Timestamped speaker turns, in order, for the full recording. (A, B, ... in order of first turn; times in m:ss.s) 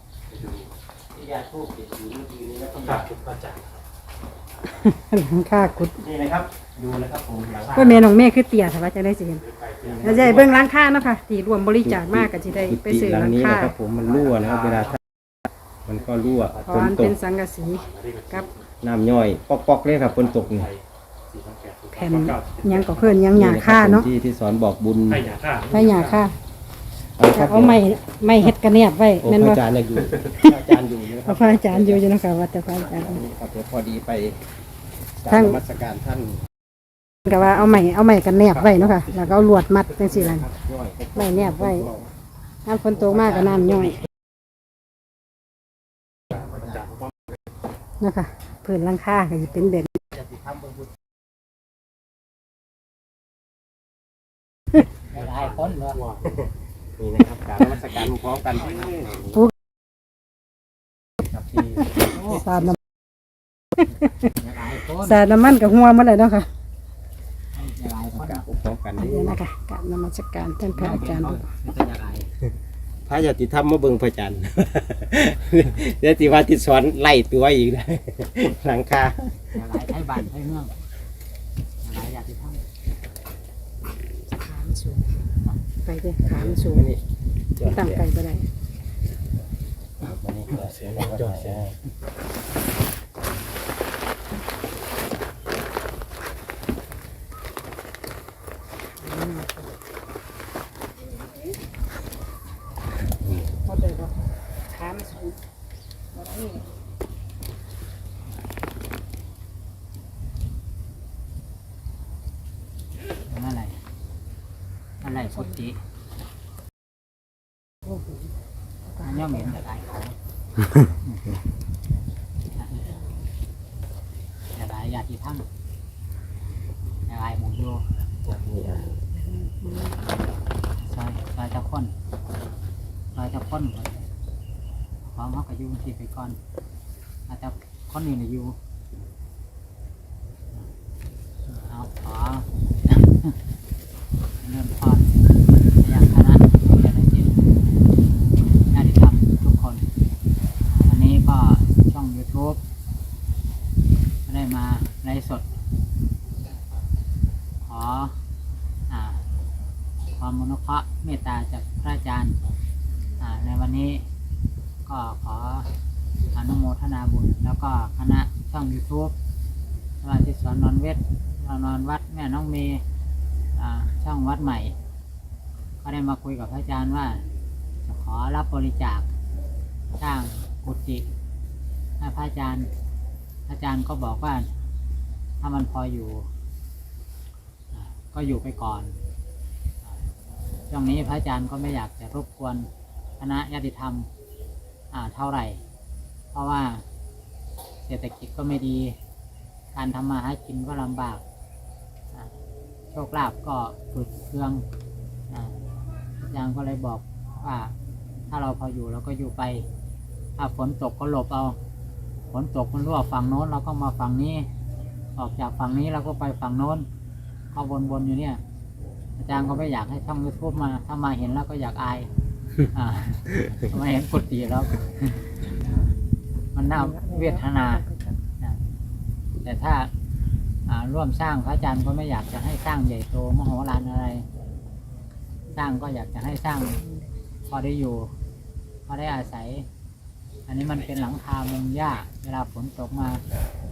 0:01.1-0:03.1 A
0:02.8-0:03.8 B
0:04.7-0:06.0 C
0:06.0-0:08.0 A
0:07.7-0:08.0 B
0:07.7-0:09.4 C
0:09.4-0:10.4 B
0:09.8-0:10.5 A
0:10.0-0:13.7 C
0:11.8-0:15.0 A
0:14.3-0:15.0 B
0:15.8-0:17.2 A
0:16.4-0:17.1 B
0:16.7-0:18.5 C
0:17.6-0:18.6 B
0:18.8-0:20.7 A
0:20.2-0:23.2 B
0:22.0-0:24.1 C
0:23.3-0:25.3 A
0:25.1-0:26.2 B
0:25.7-0:26.3 C
0:27.2-0:27.8 A
0:27.3-0:29.6 C
0:29.2-0:32.1 A
0:31.2-0:33.2 C
0:32.8-0:34.4 A
0:35.2-0:36.4 A
0:35.3-0:35.6 C
0:37.2-0:40.5 C
0:40.0-0:42.1 A
0:41.2-0:41.9 C
0:42.6-0:44.0 C
0:46.3-0:47.1 B
0:48.0-0:50.0 C
0:50.2-0:50.9 A
0:55.1-0:56.0 D
0:56.3-0:59.4 A
1:01.2-1:02.1 A
1:02.1-1:02.4 D
1:02.3-1:02.8 C
1:03.8-1:04.3 C
1:04.3-1:05.2 D
1:05.0-1:06.5 C
1:07.5-1:08.4 D
1:08.1-1:09.4 A
1:09.0-1:11.4 C
1:10.7-1:12.3 D
1:13.0-1:19.6 A
1:19.5-1:20.7 D
1:21.8-1:22.6 D
1:24.3-1:25.1 C
1:25.8-1:26.9 C
1:26.2-1:27.0 A
1:27.6-1:28.0 A
1:27.6-1:28.4 C
1:30.0-1:31.8 A
1:30.6-1:31.6 B
1:39.0-1:39.6 C
1:43.2-1:43.5 A
1:43.7-1:44.1 C
1:44.7-1:45.3 C
1:46.1-1:46.6 C
1:53.3-1:53.8 D
1:55.0-1:55.8 D
1:58.9-1:59.4 C
1:59.0-2:00.1 D
2:00.8-2:01.3 D
2:02.6-2:02.9 D
2:04.5-2:05.4 D
2:07.1-2:07.8 D
2:08.2-2:08.9 A
2:09.2-2:09.9 C
2:10.8-2:11.9 D
2:13.1-2:14.0 D
2:15.1-2:16.4 D
2:17.3-2:18.6 D
2:21.5-2:23.4 D
2:24.4-2:27.5 D
2:28.7-2:29.9 D
2:30.7-2:32.6 D
2:34.3-2:35.5 D
2:37.6-2:38.1 D
2:38.9-2:39.2 D
2:40.2-2:42.4 D
2:43.2-2:44.0 D
2:44.8-2:45.7 D
2:46.3-2:49.1 D
2:50.0-2:52.8 D
2:53.6-2:54.7 D
2:55.8-2:57.2 D
2:57.8-2:59.1 D
3:00.0-3:01.0 D
3:02.0-3:02.7 D
3:03.5-3:04.5 D
3:05.4-3:06.2 D
3:07.7-3:08.9 D
3:10.7-3:12.7 D
3:13.2-3:14.1 D
3:14.9-3:15.6 D
3:16.3-3:16.8 D
3:17.8-3:19.0 D
3:19.7-3:21.2 D
3:22.9-3:24.6 D
3:25.3-3:25.6 D
3:26.2-3:27.7 D
3:28.3-3:29.6 D
3:30.4-3:31.6 D
3:32.3-3:34.5 D
3:35.2-3:36.8 D
3:37.5-3:38.4 D
3:39.2-3:42.1 D
3:42.7-3:45.2 D
3:46.5-3:47.8 D
3:46.7-3:48.2 C
3:49.4-3:49.9 D
3:50.6-3:54.2 D
3:55.5-3:56.8 D
3:57.5-3:58.1 D
3:58.9-3:59.6 D
4:00.5-4:03.2 D